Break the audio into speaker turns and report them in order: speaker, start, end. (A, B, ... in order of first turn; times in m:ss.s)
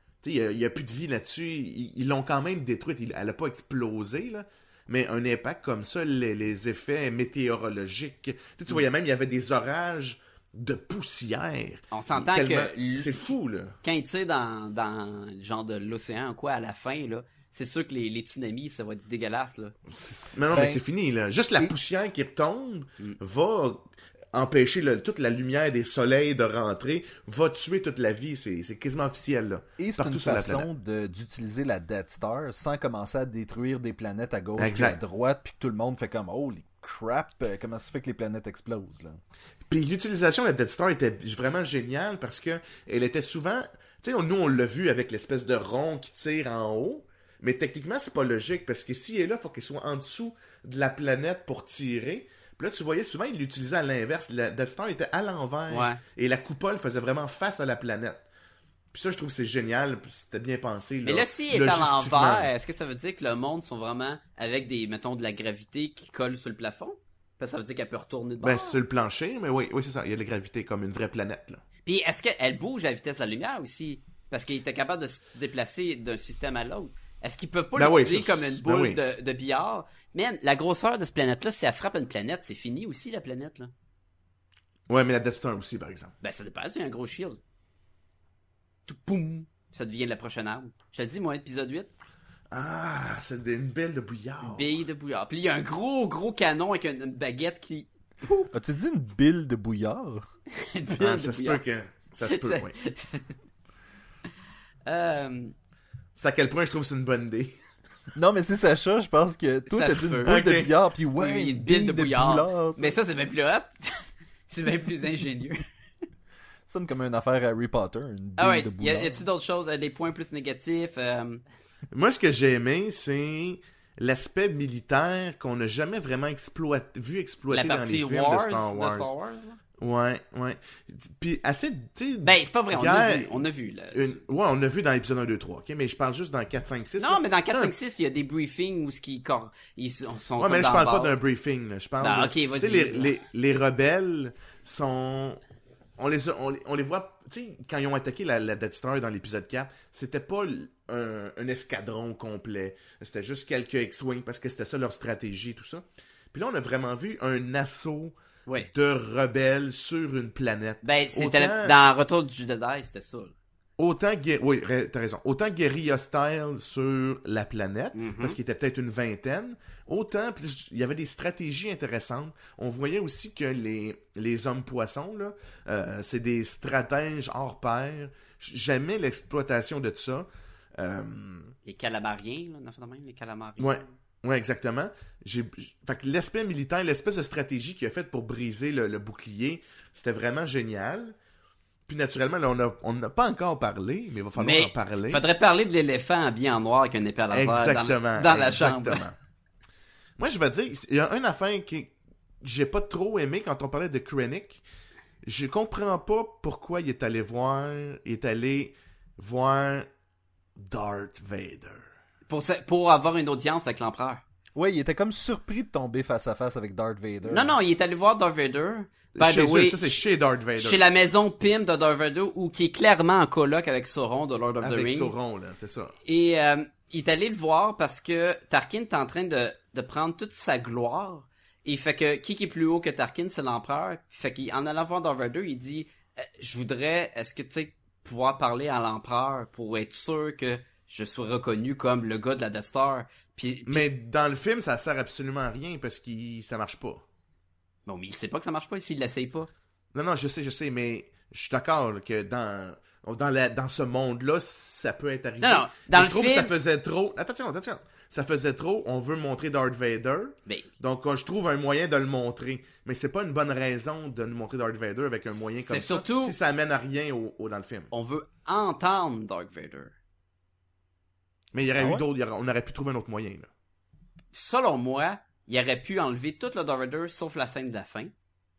0:00.2-0:13.8 A
0:11.9-0:13.3 B
0:13.8-0:19.7 B
0:19.9-0:30.7 A
0:20.5-0:20.8 C
0:29.8-0:39.2 C
0:34.6-0:35.0 A
0:39.7-0:58.2 A
0:55.7-0:56.0 B
0:58.9-1:02.5 A
1:01.0-1:08.8 B
1:08.4-1:11.6 A
1:11.8-1:23.7 B
1:17.8-1:19.0 A
1:24.9-1:26.1 A
1:26.2-1:27.4 B
1:28.9-1:31.9 B
1:32.5-1:34.7 A
1:34.4-1:37.9 B
1:38.5-1:40.2 C
1:40.5-1:41.6 B
1:41.0-1:42.7 A
1:42.2-1:43.3 B
1:44.8-1:45.5 B
1:46.2-1:47.5 A
1:48.1-1:53.0 C
1:49.7-1:50.4 B
1:50.2-1:50.7 A
1:51.2-1:55.6 B
1:56.7-1:59.2 C
1:58.4-2:01.4 B
2:01.9-2:09.1 A
2:07.5-2:09.6 B
2:09.8-2:13.4 A
2:12.2-2:14.2 B
2:13.9-2:17.7 A
2:17.0-2:21.2 B
2:20.4-2:25.4 A
2:22.0-2:23.1 B
2:26.0-2:38.2 A
2:38.7-2:41.8 A
2:40.8-2:43.3 B
2:43.8-3:01.5 A
2:47.9-2:48.4 B
3:01.6-3:03.9 B
3:03.6-3:11.2 A
3:11.9-3:15.2 A
3:14.4-3:19.0 B
3:17.3-3:19.1 A
3:20.2-3:24.6 A
3:25.2-3:29.9 A
3:30.6-3:31.8 A
3:32.3-3:34.2 B
3:34.6-3:37.6 C
3:37.2-3:40.0 B
3:39.1-3:40.8 A
3:40.6-3:45.1 B
3:44.6-3:45.9 A
3:46.0-4:03.9 B
4:03.6-4:07.0 A
4:07.9-4:09.5 B
4:09.9-4:27.9 A
4:15.4-4:16.5 B
4:25.5-4:26.4 B
4:27.9-4:29.9 B
4:31.5-4:33.5 A
4:31.8-4:32.0 C
4:34.3-4:38.1 B